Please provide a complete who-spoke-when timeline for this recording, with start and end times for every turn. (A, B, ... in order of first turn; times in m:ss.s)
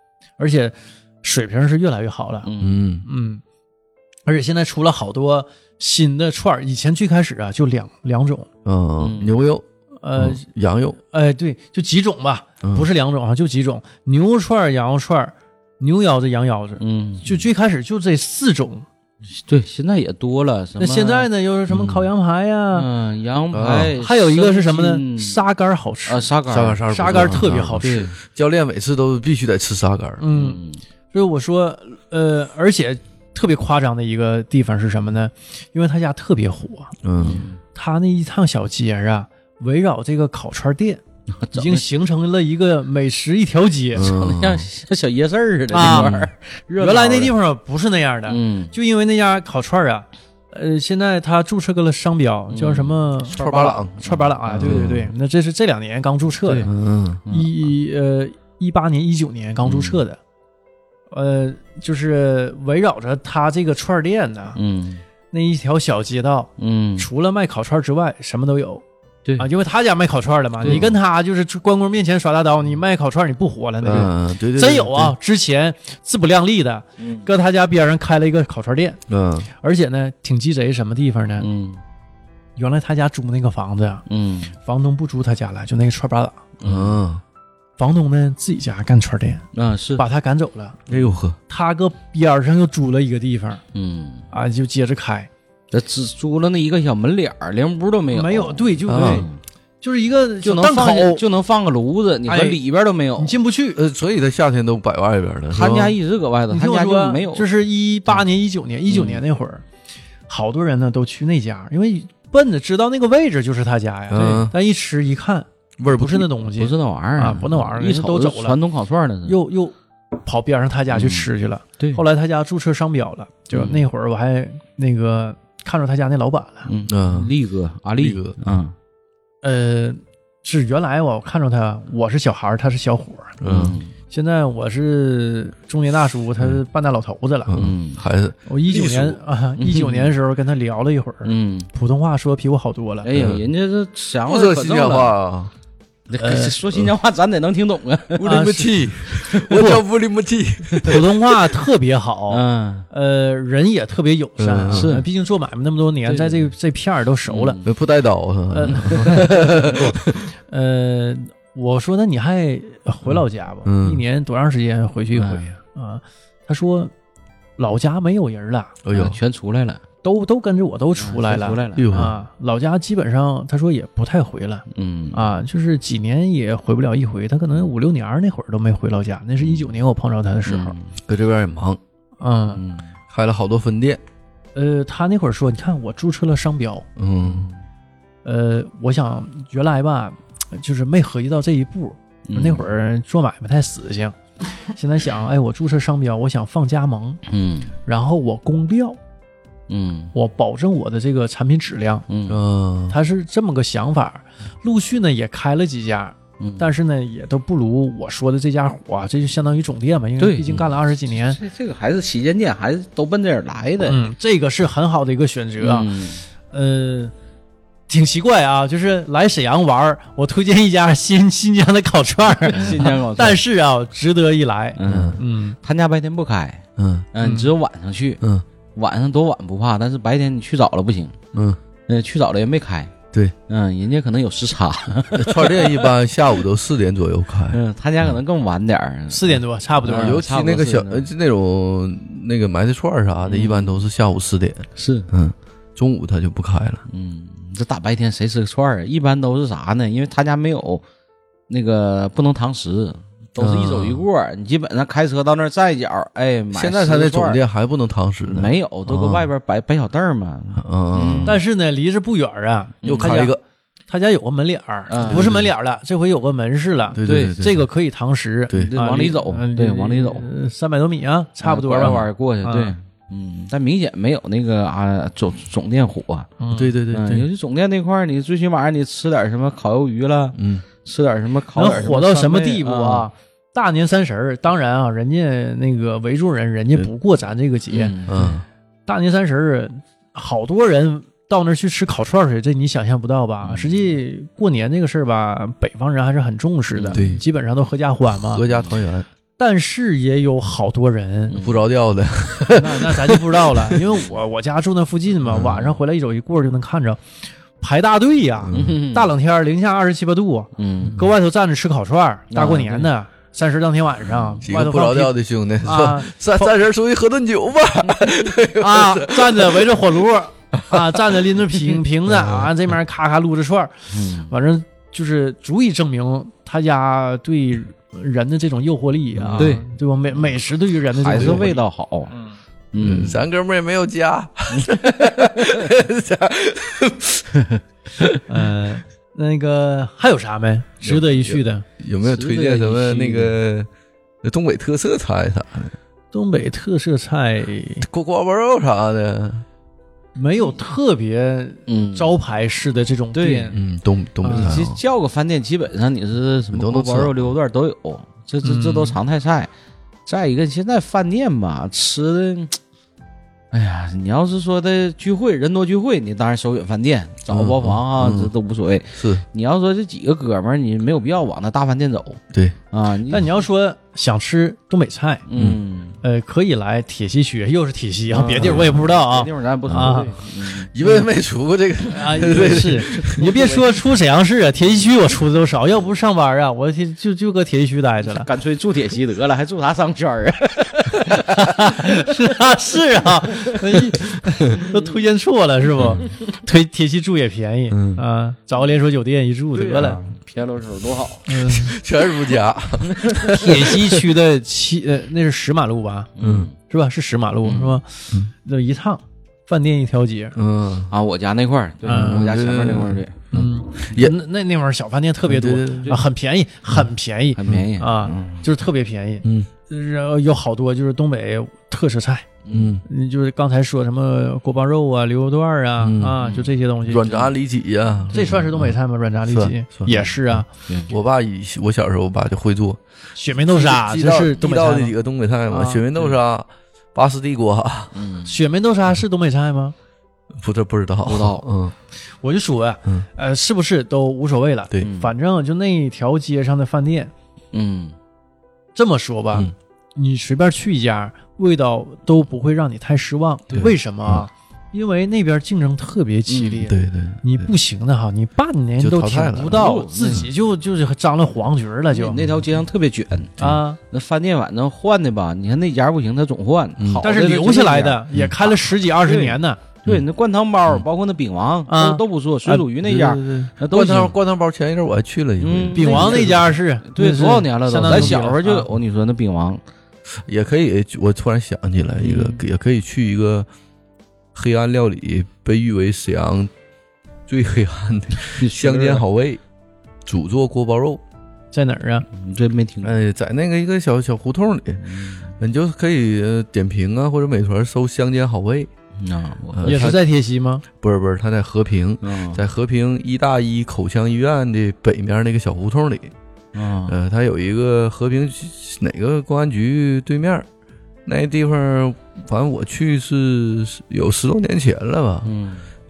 0:00.4-0:02.5 A
0:02.4-0:02.8 B
0:02.6-0:03.0 C
0:03.0-0:03.4 A
0:04.2-0:08.5 A
0:08.6-0:09.6 C
0:09.0-0:09.3 B
0:10.0-0:10.4 A
0:10.2-0:11.0 C
0:11.1-0:18.8 A
0:16.8-0:17.4 B
0:19.3-0:22.0 B
0:20.8-0:22.9 A
0:22.7-0:25.4 B
0:23.5-0:24.0 C
0:24.0-0:26.3 A
0:26.0-0:28.2 B
0:26.5-0:30.2 C
0:26.8-0:28.0 A
0:30.2-0:30.6 A
0:30.3-0:30.8 B
0:31.1-0:36.9 A
0:37.0-0:37.4 C
0:37.2-0:37.6 B
0:37.7-0:41.0 A
0:41.3-0:41.9 B
0:41.5-0:44.1 A
0:43.9-0:44.7 C
0:44.0-0:47.3 B
0:45.7-0:46.1 A
0:45.8-0:46.3 C
0:46.8-0:56.7 A
0:48.3-0:48.7 B
0:52.5-0:55.0 B
0:53.4-0:53.9 C
0:54.6-0:55.1 C
0:56.4-0:56.7 B
0:56.6-0:57.2 C
0:57.2-0:57.5 B
0:57.3-1:00.2 A
0:59.6-1:00.0 B
1:01.1-1:04.6 A
1:04.6-1:05.0 B
1:05.3-1:08.8 A
1:06.6-1:07.1 B
1:09.4-1:19.0 A
1:10.6-1:10.9 B
1:10.6-1:11.0 C
1:13.8-1:15.1 C
1:17.0-1:17.3 B
1:19.1-1:19.5 C
1:19.6-1:21.5 A
1:21.4-1:21.8 B
1:22.6-1:24.0 A
1:24.1-1:24.5 B
1:24.6-1:26.4 A
1:26.6-1:27.0 B
1:26.6-1:27.2 C
1:27.8-1:29.4 A
1:29.5-1:30.0 B
1:30.0-1:30.8 A
1:30.9-1:31.4 C
1:31.5-1:33.6 A
1:33.7-1:34.2 B
1:34.3-1:35.3 A
1:35.7-1:39.4 B
1:38.1-1:39.3 A
1:38.9-1:39.2 C
1:39.8-1:41.2 A
1:40.4-1:43.4 B
1:42.3-1:42.6 A
1:43.2-1:43.8 A
1:43.7-1:46.0 C
1:45.5-1:47.5 B
1:46.5-1:49.6 A
1:48.9-1:49.2 B
1:50.3-1:58.6 A
1:54.1-1:54.5 C
1:54.1-1:54.5 B
1:55.8-1:56.3 C
1:56.5-1:59.4 B
1:59.2-2:06.7 A
2:00.9-2:02.0 B
2:03.5-2:03.8 B
2:06.6-2:08.7 B
2:06.9-2:07.3 C
2:08.0-2:08.4 C
2:09.4-2:13.4 A
2:13.4-2:13.8 C
2:13.4-2:13.9 B
2:14.1-2:17.5 A
2:17.5-2:19.2 C
2:17.6-2:18.0 B
2:18.4-2:23.1 A
2:19.6-2:20.1 B
2:21.2-2:21.7 B
2:23.0-2:25.2 B
2:23.1-2:23.4 C
2:24.3-2:25.5 C
2:26.1-2:28.5 B
2:26.2-2:26.5 A
2:28.2-2:31.1 C
2:28.2-2:28.7 A
2:29.0-2:29.7 B
2:29.5-2:29.8 A
2:30.7-2:31.0 B
2:30.8-2:37.6 A
2:32.3-2:32.9 B
2:34.4-2:35.0 C
2:34.7-2:35.0 B
2:36.0-2:36.5 B
2:37.2-2:37.7 B
2:37.6-2:40.2 C
2:38.5-2:46.9 A
2:38.7-2:39.2 B
2:43.1-2:44.0 C
2:45.1-2:45.5 B
2:47.6-2:48.8 A
2:48.8-2:49.2 C
2:48.9-2:49.8 B
2:50.0-3:00.8 A
2:51.0-2:52.0 B
2:51.8-2:52.1 C
2:54.7-2:55.4 B
3:00.4-3:01.0 B
3:01.1-3:01.8 C
3:02.2-3:02.6 A
3:02.5-3:02.9 B
3:03.1-3:04.0 C
3:04.5-3:06.8 A
3:07.0-3:07.5 C
3:07.2-3:07.6 B
3:08.2-3:17.2 A
3:12.3-3:12.6 B
3:17.3-3:17.7 B
3:17.8-3:19.0 A
3:19.7-3:20.1 B
3:20.1-3:22.0 A
3:22.1-3:22.4 B
3:22.3-3:23.0 C
3:22.9-3:31.4 A
3:26.4-3:26.7 B
3:30.2-3:34.0 B
3:33.8-3:35.9 A
3:35.6-3:36.2 B
3:36.5-3:37.1 A
3:37.9-3:45.6 A
3:42.5-3:43.4 B
3:44.8-3:48.2 B
3:44.8-3:45.2 C
3:46.8-3:47.1 C
3:47.2-3:47.5 A
3:48.7-3:51.2 B
3:51.3-3:51.6 C
3:51.9-3:52.9 B
3:53.5-3:55.9 B
3:55.1-3:57.6 C
3:57.5-4:01.1 B
3:59.1-4:00.2 A
3:59.9-4:06.8 C
4:03.2-4:03.8 B
4:04.8-4:05.1 B
4:06.9-4:10.8 B
4:11.5-4:17.4 B
4:13.4-4:14.0 C
4:16.5-4:19.3 C
4:18.3-4:21.4 B
4:20.6-4:21.4 C
4:21.2-4:23.4 A
4:22.8-4:23.2 B
4:22.8-4:23.4 C
4:23.9-4:32.7 A
4:24.9-4:25.4 B
4:25.0-4:25.4 C
4:26.9-4:27.7 C
4:27.0-4:27.4 B
4:28.5-4:30.3 B
4:31.4-4:36.3 B
4:31.8-4:32.0 C
4:36.4-4:36.7 A
4:36.5-4:37.3 C
4:36.9-4:43.1 B
4:40.3-4:40.6 C
4:41.5-4:47.9 A
4:47.7-4:48.3 B
4:48.0-4:48.4 C
4:48.8-4:58.4 A
4:53.4-4:53.9 B
4:56.8-4:57.0 B
4:56.9-4:57.2 C
4:58.2-4:59.0 C
4:59.4-5:01.4 A
5:01.3-5:01.6 B
5:01.4-5:03.8 C
5:02.5-5:07.0 A
5:05.3-5:05.6 C
5:05.3-5:05.7 B
5:07.6-5:16.5 A
5:08.4-5:08.8 C
5:08.5-5:09.1 B
5:10.6-5:11.0 B
5:12.3-5:12.9 B
5:14.0-5:14.4 B
5:14.4-5:19.8 C
5:18.6-5:31.6 A
5:20.5-5:21.2 C
5:23.9-5:24.3 B
5:29.2-5:29.6 C
5:29.4-5:29.6 B
5:30.9-5:32.2 B
5:31.1-5:31.5 C
5:32.7-5:33.2 B
5:32.8-5:37.4 C
5:34.6-5:35.2 B
5:38.2-5:41.6 A
5:40.8-5:43.7 C
5:42.0-5:43.3 B
5:44.2-5:45.7 C
5:46.1-5:47.8 A
5:47.8-5:49.4 C
5:50.1-5:53.6 A
5:51.7-5:52.2 B
5:53.1-5:53.6 B
5:53.5-5:54.8 C
5:54.2-5:59.5 B
5:56.5-5:57.1 C
5:58.4-5:59.0 A
6:00.0-6:02.6 B
6:03.5-6:13.3 B
6:07.3-6:08.3 C
6:09.0-6:09.2 C
6:13.1-6:15.2 A
6:15.3-6:16.0 B
6:16.0-6:20.2 A
6:18.1-6:20.7 B
6:18.4-6:18.7 C
6:20.5-6:23.2 C
6:21.9-6:28.3 A
6:22.2-6:23.8 B
6:28.1-6:32.2 B
6:30.9-6:40.0 A
6:34.6-6:34.9 B
6:37.7-6:38.0 C
6:39.5-6:41.2 B
6:41.3-6:41.8 A
6:41.4-6:43.6 C
6:42.9-6:43.4 B
6:43.3-6:46.1 A
6:46.2-6:46.5 B
6:46.2-6:46.5 C
6:46.7-6:50.3 A
6:47.4-6:47.8 B
6:50.4-6:50.9 C
6:50.9-6:53.3 B
6:51.8-6:52.2 A
6:51.8-6:54.1 C
6:53.3-7:02.3 A
6:55.2-6:55.9 C
6:57.4-6:58.4 B
6:59.2-6:59.5 C
7:02.4-7:02.7 B
7:02.5-7:02.8 C
7:02.8-7:07.1 A
7:05.8-7:06.2 C
7:06.2-7:06.5 B
7:06.8-7:12.8 C
7:08.0-7:08.4 B
7:08.1-7:10.5 A
7:10.6-7:10.9 B
7:13.2-7:14.9 A
7:13.4-7:17.9 C
7:15.5-7:15.8 A
7:17.9-7:18.4 B
7:18.2-7:19.7 A
7:20.4-7:21.7 C
7:21.0-7:21.4 B
7:22.2-7:27.1 A
7:24.8-7:25.1 B
7:27.5-7:27.9 B
7:28.7-7:42.2 A
7:33.5-7:34.3 C
7:36.3-7:36.7 B
7:36.7-7:37.5 C
7:38.8-7:39.6 C
7:39.5-7:40.3 B
7:41.9-7:54.1 B
7:43.4-7:43.8 A
7:46.8-7:47.0 C
7:47.0-7:49.6 A
7:51.7-7:52.6 A
7:52.8-7:56.4 C
7:55.4-7:59.6 B
7:55.7-7:58.7 A
8:00.2-8:03.5 C
8:02.0-8:02.4 B
8:04.3-8:06.5 C
8:07.3-8:09.4 C
8:08.4-8:09.0 B
8:10.0-8:11.0 C
8:11.5-8:12.0 A
8:12.1-8:13.0 B
8:12.8-8:14.8 C
8:14.8-8:15.3 B
8:15.4-8:18.7 C
8:19.0-8:20.0 B
8:19.5-8:20.0 C
8:19.6-8:20.6 A
8:20.7-8:26.1 C
8:22.0-8:22.4 B
8:26.5-8:27.0 B
8:26.9-8:30.5 C
8:31.0-8:35.3 C
8:35.2-8:35.7 B